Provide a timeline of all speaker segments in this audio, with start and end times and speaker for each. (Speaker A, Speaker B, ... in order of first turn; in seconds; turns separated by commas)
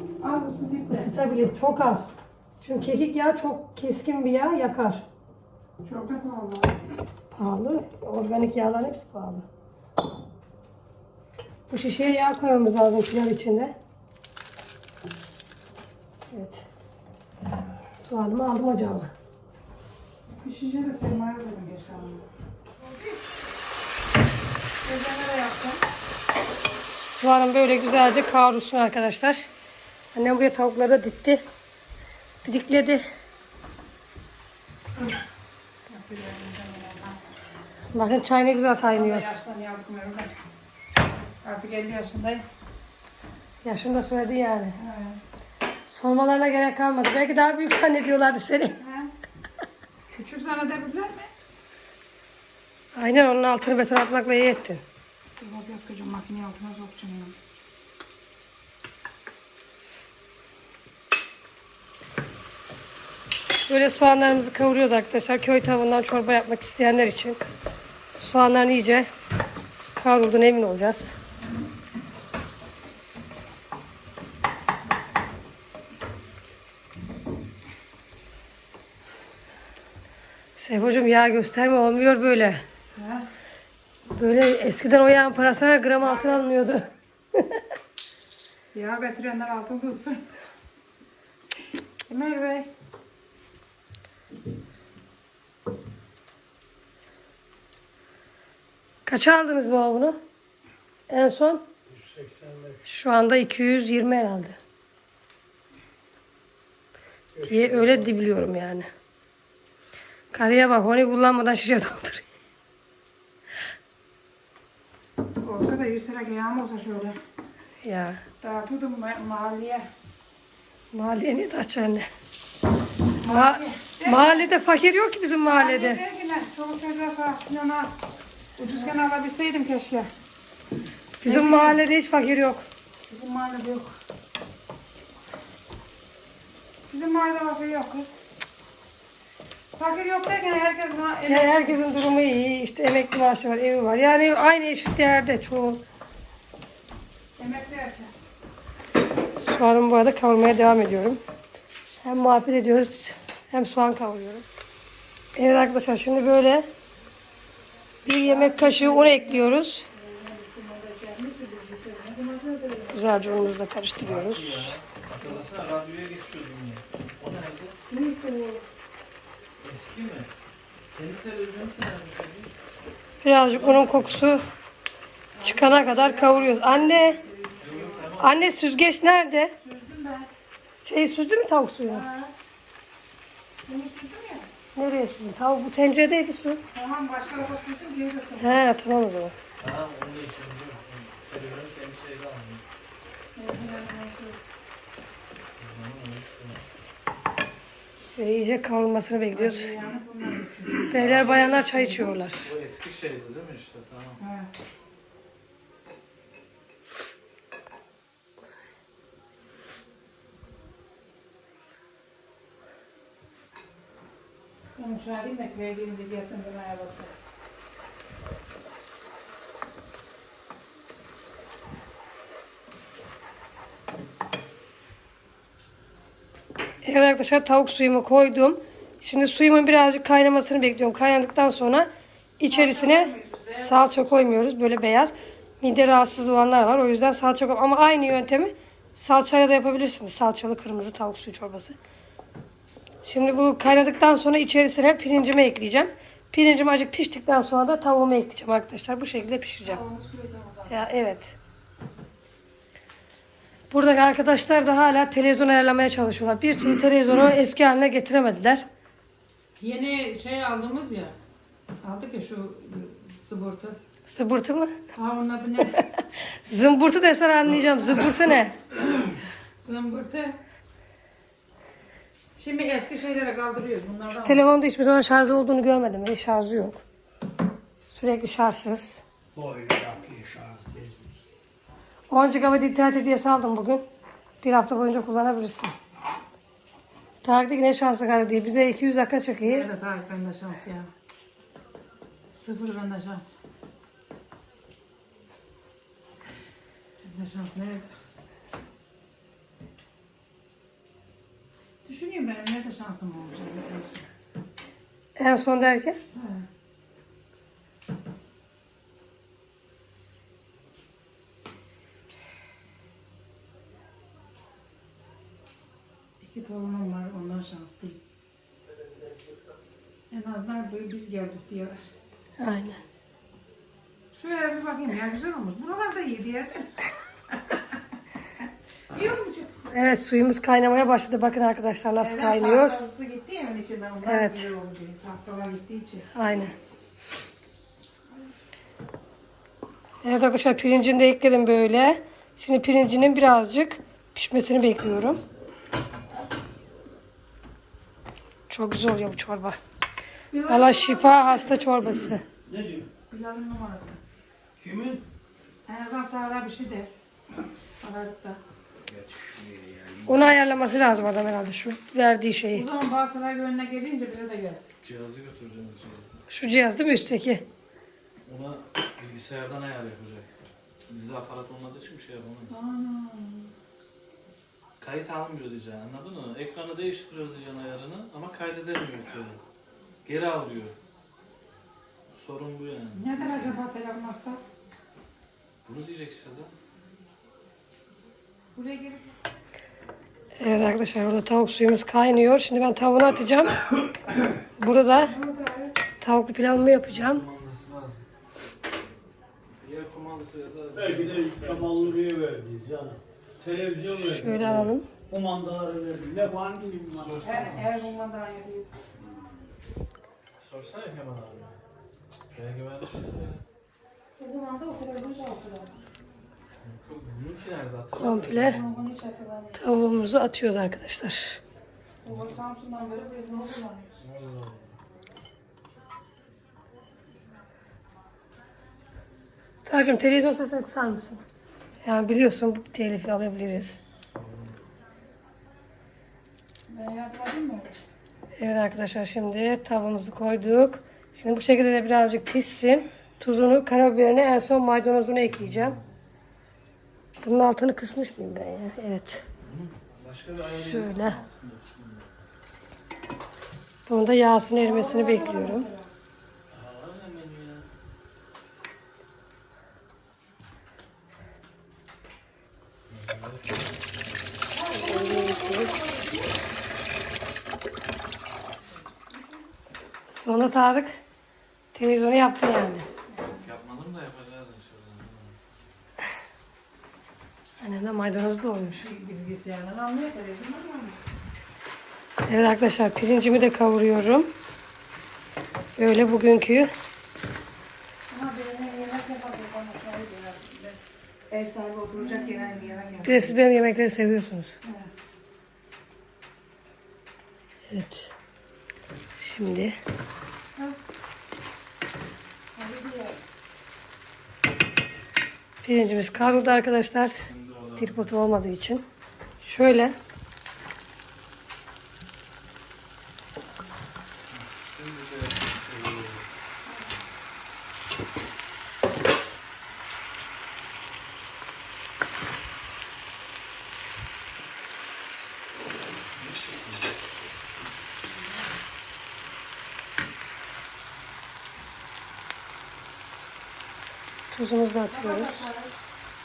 Speaker A: 0.2-1.1, Speaker B: 0.9-5.0, Speaker A: 5.8-6.8, Speaker B: 7.3-9.4, Speaker B: 11.7-13.7, Speaker B: 16.3-16.6, Speaker B: 17.9-19.1, Speaker A: 20.4-22.2, Speaker A: 22.8-23.2, Speaker A: 24.8-25.8, Speaker B: 27.2-29.5, Speaker B: 30.1-31.4, Speaker B: 32.4-33.0, Speaker A: 35.9-37.3, Speaker B: 37.9-39.3, Speaker A: 38.9-40.4, Speaker A: 41.4-42.4, Speaker B: 43.6-44.8, Speaker A: 44.8-45.2, Speaker B: 45.9-48.8, Speaker A: 48.8-49.1, Speaker A: 50.1-51.3, Speaker B: 52.9-54.8, Speaker A: 55.4-57.4, Speaker B: 63.7-67.4, Speaker B: 68.2-69.1, Speaker B: 70.0-71.1, Speaker B: 80.6-82.6, Speaker A: 82.9-83.3, Speaker B: 84.1-87.6, Speaker A: 86.0-86.4, Speaker A: 88.7-90.2, Speaker A: 92.1-92.7, Speaker B: 99.0-100.2, Speaker B: 101.1-101.6, Speaker C: 101.9-102.8, Speaker B: 102.9-104.6, Speaker C: 107.3-108.2, Speaker B: 107.4-108.9, Speaker B: 110.3-112.2, Speaker A: 115.4-117.2, Speaker B: 117.8-118.2, Speaker A: 118.4-119.9, Speaker B: 120.9-122.0, Speaker A: 123.2-124.5, Speaker B: 123.2-126.0, Speaker A: 125.4-127.9, Speaker A: 128.6-130.1, Speaker B: 131.2-132.6, Speaker A: 131.2-131.8, Speaker A: 133.1-134.0, Speaker A: 136.9-138.1, Speaker A: 139.7-141.8, Speaker B: 141.3-145.8, Speaker A: 147.4-148.1, Speaker B: 149.3-151.2, Speaker B: 152.0-154.4, Speaker B: 155.3-156.7, Speaker B: 158.0-159.8, Speaker A: 158.1-163.5, Speaker B: 162.9-164.7, Speaker D: 164.0-167.8, Speaker A: 167.9-168.6, Speaker D: 169.6-170.3, Speaker D: 170.9-172.5, Speaker B: 173.2-174.4, Speaker D: 173.3-174.3, Speaker A: 175.3-178.1, Speaker B: 175.4-177.2, Speaker D: 177.6-178.5, Speaker B: 178.2-179.5, Speaker A: 179.6-180.3, Speaker B: 180.8-182.1, Speaker A: 181.8-182.3, Speaker A: 183.6-184.5, Speaker B: 184.8-186.6, Speaker A: 186.7-188.7, Speaker B: 188.4-189.3, Speaker D: 189.6-192.6, Speaker A: 193.3-194.4, Speaker D: 195.6-196.6, Speaker B: 198.2-199.7, Speaker A: 199.3-202.2, Speaker B: 200.9-202.5, Speaker D: 200.9-201.5, Speaker D: 202.4-204.2, Speaker A: 204.2-204.5, Speaker A: 214.8-217.1, Speaker B: 226.8-241.8, Speaker A: 232.4-234.0, Speaker B: 243.0-249.8, Speaker A: 249.6-250.9, Speaker B: 250.7-251.3, Speaker B: 253.7-258.6, Speaker A: 259.6-261.1, Speaker A: 261.8-263.8, Speaker B: 264.1-264.7, Speaker A: 264.9-265.8, Speaker B: 265.7-268.6, Speaker A: 269.6-270.4, Speaker A: 272.4-274.4, Speaker B: 274.2-276.8, Speaker B: 277.8-279.0, Speaker C: 279.3-281.2, Speaker B: 282.1-283.8, Speaker B: 284.4-285.7, Speaker B: 287.2-289.7, Speaker A: 289.4-290.9, Speaker A: 292.3-293.4, Speaker A: 297.0-297.9, Speaker A: 301.8-304.0, Speaker B: 305.1-305.9, Speaker A: 306.1-306.4, Speaker A: 316.2-318.0, Speaker A: 320.1-321.8, Speaker B: 322.4-322.8, Speaker A: 324.1-326.7, Speaker A: 327.3-327.8, Speaker A: 328.9-329.6, Speaker B: 329.7-332.8, Speaker A: 332.0-336.1, Speaker B: 334.0-334.5, Speaker B: 336.1-336.5, Speaker B: 340.0-345.2, Speaker B: 348.5-349.6, Speaker A: 350.3-351.7, Speaker B: 350.5-352.2, Speaker C: 352.4-352.9, Speaker A: 353.1-354.0, Speaker C: 354.6-355.0, Speaker A: 355.7-356.9, Speaker A: 357.8-358.4, Speaker C: 358.9-360.5, Speaker B: 360.1-362.7, Speaker A: 362.5-364.7, Speaker D: 364.8-366.2, Speaker B: 366.3-367.4, Speaker D: 368.2-370.3, Speaker D: 370.9-372.5, Speaker A: 372.5-373.5, Speaker D: 374.8-379.4, Speaker D: 380.0-380.7, Speaker D: 382.1-383.6, Speaker A: 382.9-384.4, Speaker D: 385.6-386.5, Speaker A: 388.5-389.1, Speaker B: 390.4-393.7, Speaker B: 394.6-395.1, Speaker A: 394.9-395.8, Speaker B: 396.0-397.2, Speaker D: 396.9-398.0, Speaker D: 399.6-402.0, Speaker C: 400.7-407.3, Speaker B: 404.0-404.9, Speaker D: 406.9-407.9, Speaker A: 407.2-408.7, Speaker D: 410.4-411.6, Speaker D: 412.3-413.4, Speaker A: 414.2-415.8, Speaker D: 416.6-418.8, Speaker B: 417.9-418.6, Speaker A: 418.4-419.6, Speaker B: 419.6-421.4, Speaker A: 422.0-424.0, Speaker D: 424.0-424.8, Speaker B: 429.6-431.2, Speaker B: 431.8-433.8, Speaker D: 434.1-434.6, Speaker A: 436.7-437.8, Speaker B: 438.4-445.8, Speaker D: 445.5-445.8, Speaker B: 447.2-449.2, Speaker D: 449.4-452.1, Speaker B: 450.5-451.2, Speaker B: 453.9-455.7, Speaker A: 454.6-455.9, Speaker D: 456.5-457.6, Speaker D: 462.9-463.6, Speaker A: 464.5-466.4, Speaker B: 464.8-465.7, Speaker A: 468.9-469.4, Speaker B: 470.1-470.9, Speaker B: 471.7-472.9, Speaker A: 473.1-473.4, Speaker D: 473.3-475.4, Speaker B: 477.6-478.8, Speaker A: 478.7-481.0, Speaker B: 482.3-484.3, Speaker B: 485.8-486.7, Speaker A: 488.1-493.4, Speaker B: 493.0-494.5, Speaker A: 494.6-494.9, Speaker B: 497.7-498.1, Speaker B: 499.2-499.8, Speaker A: 502.5-503.2, Speaker B: 505.6-507.2, Speaker D: 506.1-506.7, Speaker D: 507.2-508.1, Speaker B: 507.8-508.8, Speaker B: 509.4-509.9, Speaker D: 514.3-516.3, Speaker D: 526.2-526.8, Speaker B: 534.3-535.4, Speaker A: 534.9-535.7